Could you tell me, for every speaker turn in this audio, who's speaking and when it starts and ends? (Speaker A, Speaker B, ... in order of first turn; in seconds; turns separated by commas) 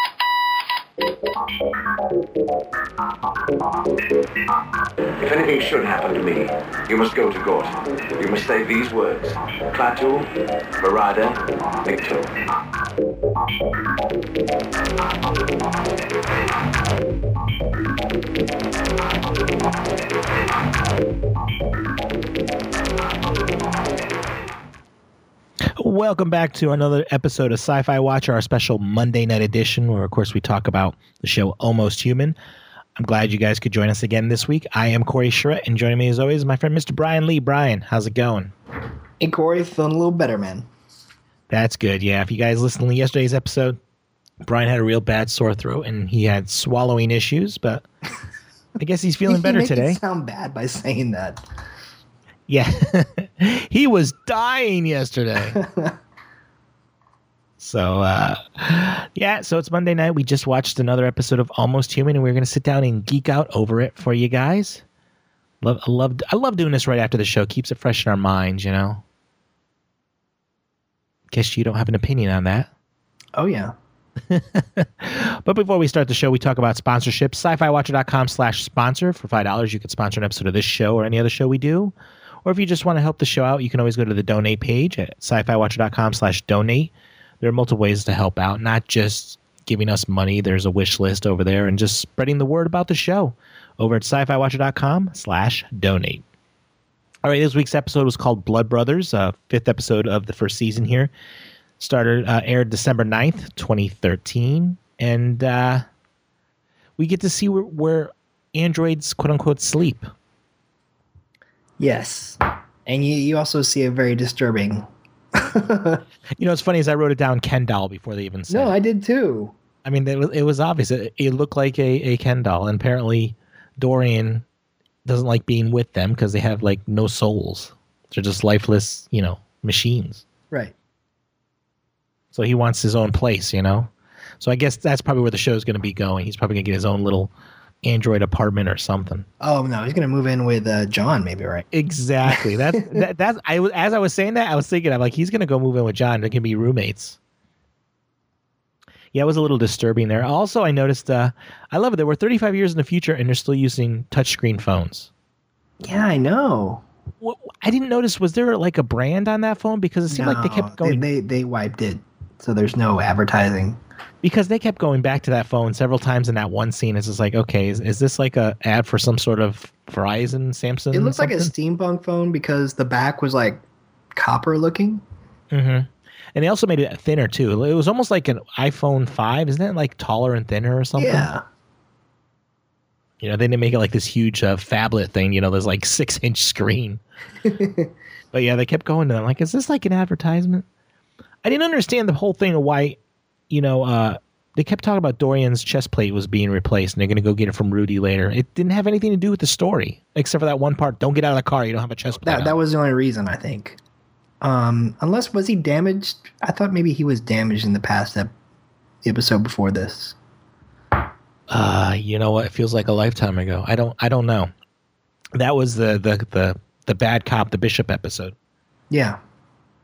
Speaker A: 5.2-10.3, Speaker A: 10.8-12.3, Speaker B: 25.8-32.4, Speaker B: 33.0-38.5, Speaker C: 39.2-40.7, Speaker B: 41.5-43.8, Speaker B: 44.4-47.9, Speaker B: 48.8-50.0, Speaker C: 49.2-51.4, Speaker B: 52.5-55.6, Speaker C: 55.5-55.9, Speaker B: 57.6-64.8, Speaker B: 65.6-69.0, Speaker B: 71.3-72.7, Speaker C: 73.3-73.7, Speaker B: 74.3-96.2, Speaker B: 97.2-101.1, Speaker B: 101.8-105.8, Speaker B: 107.0-110.1, Speaker C: 111.8-116.0, Speaker B: 116.4-118.7, Speaker C: 118.5-119.5, Speaker B: 119.8-124.5, Speaker B: 125.0-130.2, Speaker B: 132.3-137.3, Speaker B: 137.8-139.3, Speaker C: 139.4-141.7, Speaker B: 141.7-147.2, Speaker C: 142.3-143.0, Speaker B: 149.1-155.1, Speaker C: 155.8-156.8, Speaker B: 157.2-161.0, Speaker C: 160.1-163.8, Speaker B: 164.2-171.5, Speaker C: 170.9-173.6, Speaker C: 174.2-175.0, Speaker B: 175.5-181.3, Speaker C: 181.0-181.4, Speaker B: 183.2-187.0, Speaker C: 187.4-187.9, Speaker B: 188.3-190.7, Speaker B: 191.4-193.0, Speaker B: 193.5-202.6, Speaker C: 202.2-203.8, Speaker C: 204.4-208.3, Speaker C: 209.0-210.2, Speaker B: 211.5-214.5, Speaker B: 215.4-218.3, Speaker C: 218.9-219.2